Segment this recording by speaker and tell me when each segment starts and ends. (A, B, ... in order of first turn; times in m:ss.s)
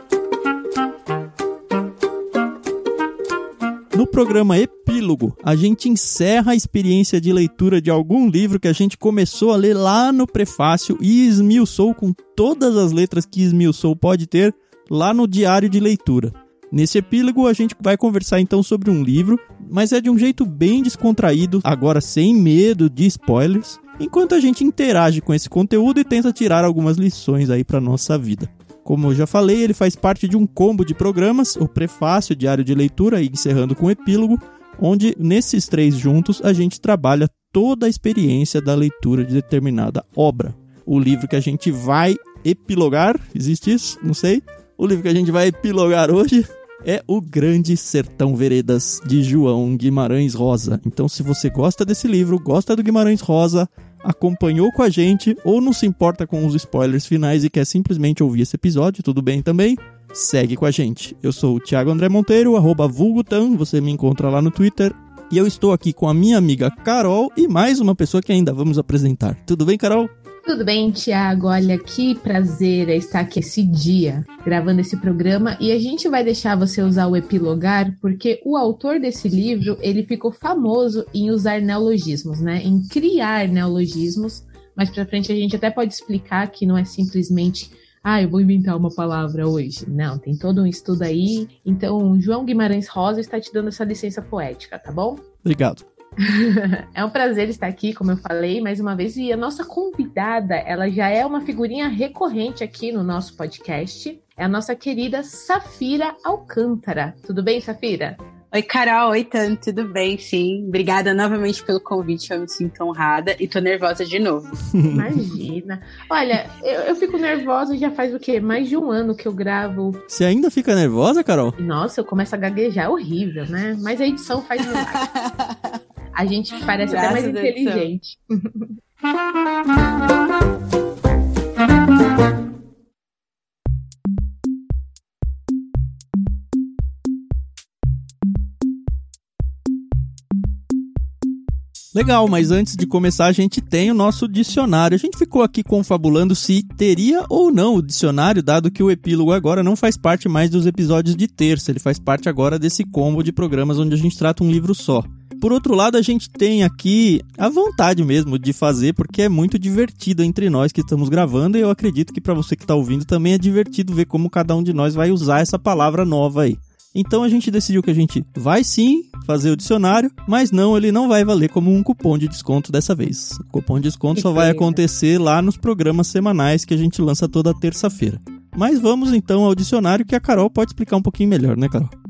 0:03.9-1:10.1 A
1:10.4-1:35.2 B
1:35.4-1:35.8 A
1:36.2-1:48.2 B
1:48.5-1:54.5 C
1:54.7-1:55.2 A
1:54.9-2:00.0 B
2:00.1-2:01.6 A
2:01.6-2:05.0 B
2:04.7-2:05.8 C
2:06.2-2:08.8 B
2:06.8-2:07.9 C
2:21.9-3:01.9 A
2:54.1-2:54.8 B